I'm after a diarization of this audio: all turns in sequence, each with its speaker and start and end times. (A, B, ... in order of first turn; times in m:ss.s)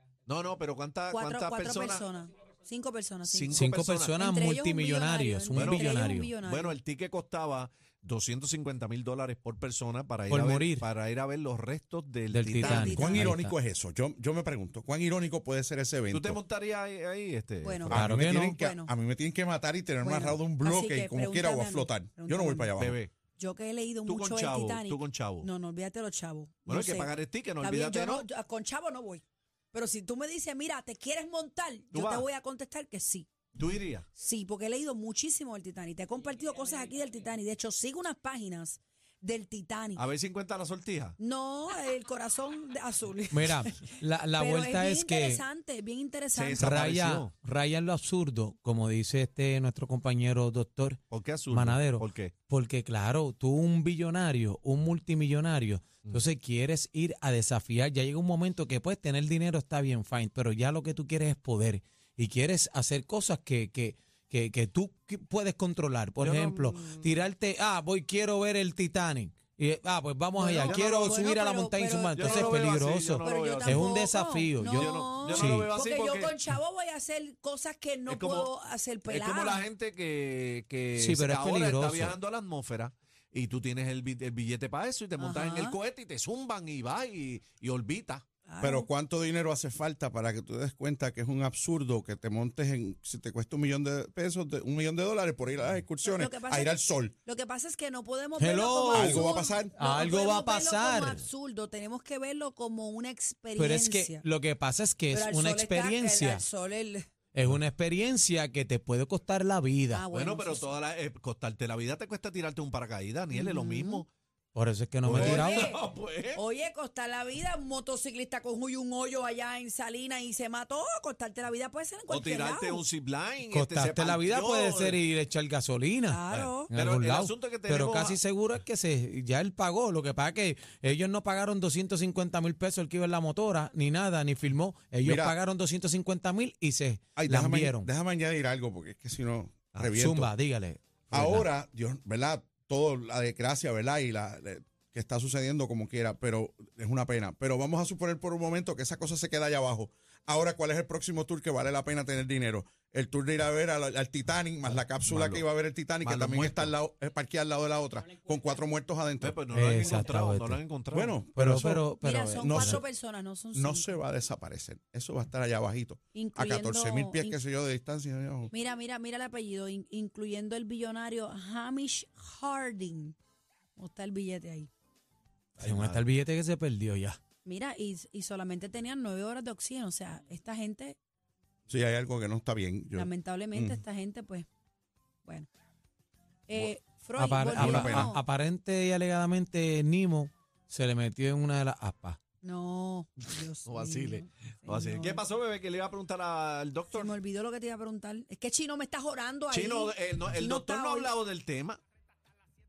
0:00.3-0:02.1 A
0:01.1-0:03.7 B
0:03.2-0:04.2 A
0:03.5-0:06.3 C
0:04.2-0:06.8 B
0:05.6-0:13.3 A
0:10.3-0:10.9 C
0:12.3-0:13.5 C
0:12.6-0:13.3 B
0:12.9-0:16.4 D
0:16.1-0:18.2 A
0:17.6-0:17.9 B
0:17.9-0:23.0 D
0:17.9-0:18.6 C
0:18.5-0:18.9 B
0:20.0-0:22.7 B
0:22.8-0:23.1 A
0:23.4-0:33.3 B
0:24.1-0:25.5 A
0:26.7-0:28.2 A
0:31.9-0:32.3 A
0:33.6-0:34.1 A
0:34.2-0:40.0 B
0:40.0-0:41.2 A
0:41.2-0:46.7 B
0:43.3-0:45.4 C
0:46.3-0:47.3 A
0:46.6-1:15.7 C
0:51.1-0:52.3 A
1:06.2-1:07.2 A
1:10.4-1:12.6 B
1:10.6-1:11.3 A
1:12.2-1:13.9 A
1:13.2-1:19.7 B
1:14.7-1:16.4 A
1:18.1-1:18.5 A
1:19.1-1:28.2 A
1:21.0-1:22.2 C
1:25.2-1:25.8 B
1:28.4-1:28.9 B
1:28.6-1:37.1 D
1:36.0-1:44.2 B
1:38.4-1:41.2 C
1:38.9-1:39.8 D
1:43.6-1:46.4 C
1:45.1-1:47.1 B
1:47.3-1:50.0 C
1:49.9-1:50.8 B
1:50.1-1:54.1 A
1:53.3-1:54.0 B
1:54.6-1:55.7 C
1:55.0-1:56.4 A
1:55.2-1:55.8 B
1:56.4-2:02.8 B
2:02.1-2:05.0 A
2:03.4-2:17.9 C
2:06.1-2:06.7 B
2:06.3-2:08.2 A
2:15.0-2:15.4 D
2:17.2-2:20.3 D
2:19.9-2:21.5 C
2:21.1-2:39.4 D
2:35.1-2:35.4 A
2:36.0-2:36.7 A
2:39.2-2:41.2 A
2:39.5-2:40.6 C
2:40.9-2:41.9 D
2:41.4-2:42.8 C
2:42.0-2:44.0 B
2:42.4-2:42.8 D
2:43.5-2:48.5 D
2:46.2-2:47.4 B
2:48.5-2:53.2 B
2:53.8-2:54.7 B
2:55.6-2:56.1 A
2:55.6-2:57.2 C
2:57.4-3:01.0 B
3:01.7-3:03.8 D
3:03.0-3:04.5 B
3:06.5-3:08.2 B
3:07.2-3:12.2 C
3:07.6-3:08.1 D
3:12.4-3:15.2 B
3:13.7-3:17.2 A
3:16.9-3:21.1 B
3:19.5-3:21.8 A